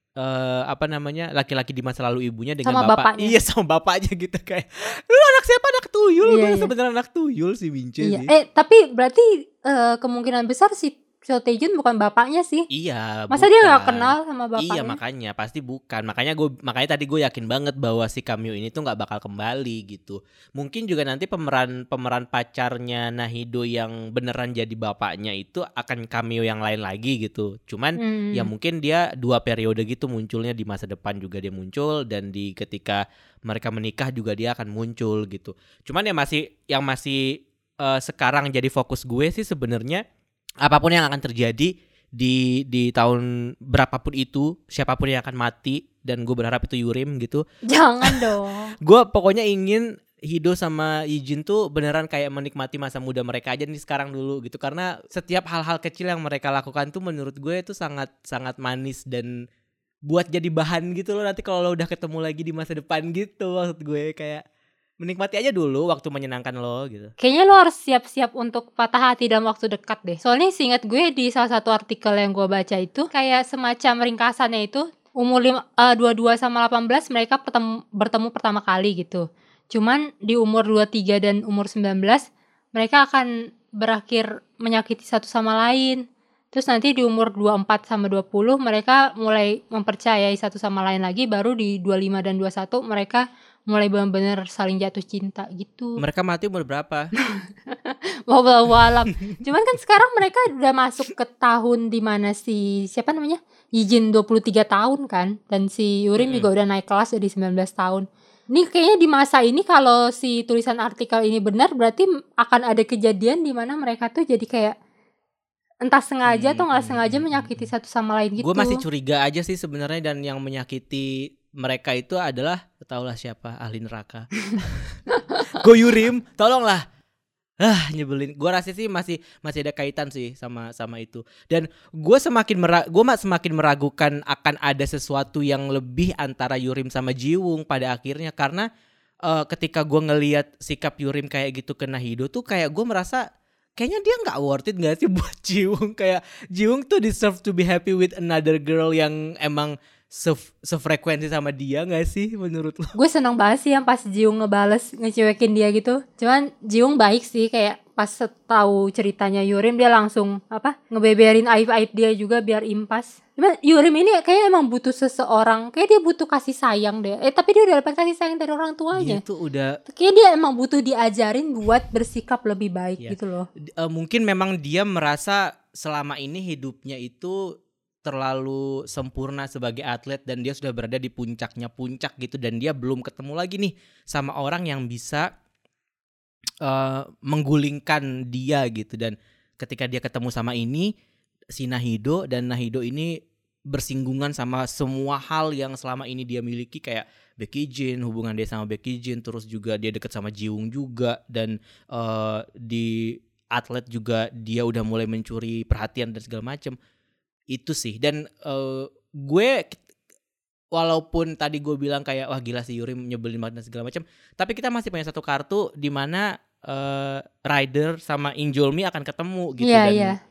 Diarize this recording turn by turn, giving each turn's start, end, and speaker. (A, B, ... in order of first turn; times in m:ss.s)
0:00.2-0:08.3 A
0:02.6-0:03.4 B
0:06.2-0:06.7 B
0:08.0-0:12.7 B
0:12.7-0:40.0 A
0:13.3-0:15.0 B
0:28.0-0:28.5 B
0:40.6-0:47.4 A
0:47.7-0:48.7 B
0:48.8-0:59.3 A
1:00.1-1:04.4 A
1:05.0-1:07.1 A
1:07.2-1:26.0 B
1:26.5-1:36.0 B
1:36.0-1:37.1 A
1:37.3-1:54.7 B
1:46.2-1:46.5 A
1:55.8-1:58.8 B
1:56.3-1:57.7 A
1:58.4-2:06.8 A
2:07.6-2:18.7 A
2:19.3-2:23.2 A
2:23.8-2:32.9 A
2:33.0-2:49.2 B
2:48.9-2:49.8 A
2:49.9-2:53.5 B
2:53.8-2:57.5 A
2:58.0-3:05.3 A
3:06.6-3:10.9 A
3:11.5-3:13.2 A
3:13.7-3:26.8 A
3:27.5-3:29.8 A
3:30.7-3:40.2 A
3:39.6-3:40.2 B